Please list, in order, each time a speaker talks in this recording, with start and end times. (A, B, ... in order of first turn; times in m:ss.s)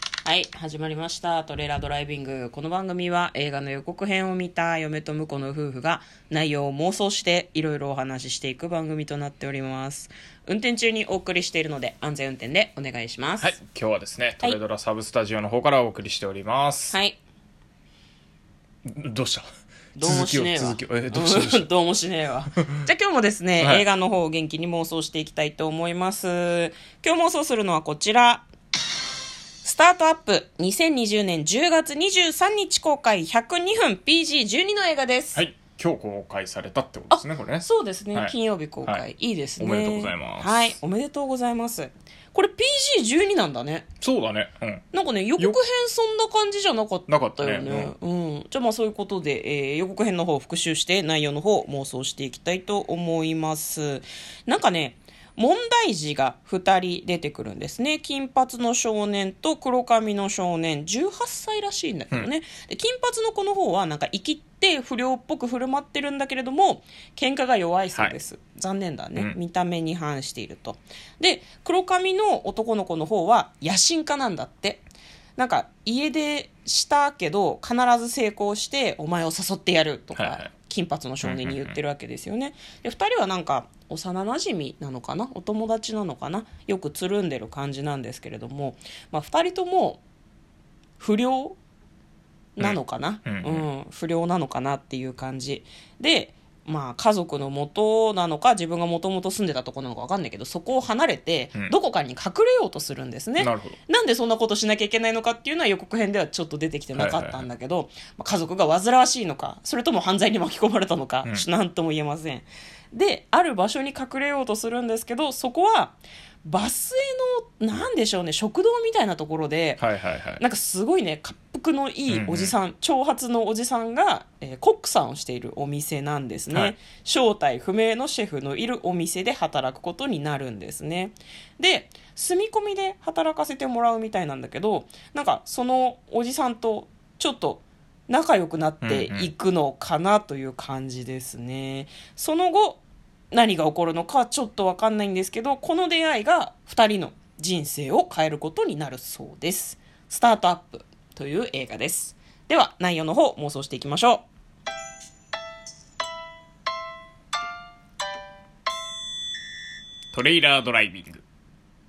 0:00.2-0:13.6 A
0:13.4-0:17.0 B
0:16.9-0:17.2 A
0:18.8-0:19.5 B
0:20.0-0:28.5 A
0:20.0-0:21.7 B
0:22.6-0:22.8 B
0:23.6-0:23.9 B
0:29.6-0:35.4 A
0:35.4-0:38.3 B
0:37.1-0:43.9 A
0:39.6-0:40.7 B
0:44.0-0:44.8 B
0:44.9-1:14.8 A
0:47.1-0:47.9 B
1:15.4-1:30.0 A
1:20.2-1:20.5 B
1:21.2-1:21.8 B
1:31.0-1:31.6 A
1:32.6-1:59.8 A
1:32.6-1:33.7 B
1:43.4-1:43.8 B
1:47.0-1:47.5 B
1:59.8-2:00.4 B
2:00.4-2:22.8 A
2:02.1-2:02.6 B
2:18.8-2:19.3 B
2:23.3-2:34.2 A
2:40.1-2:41.2 B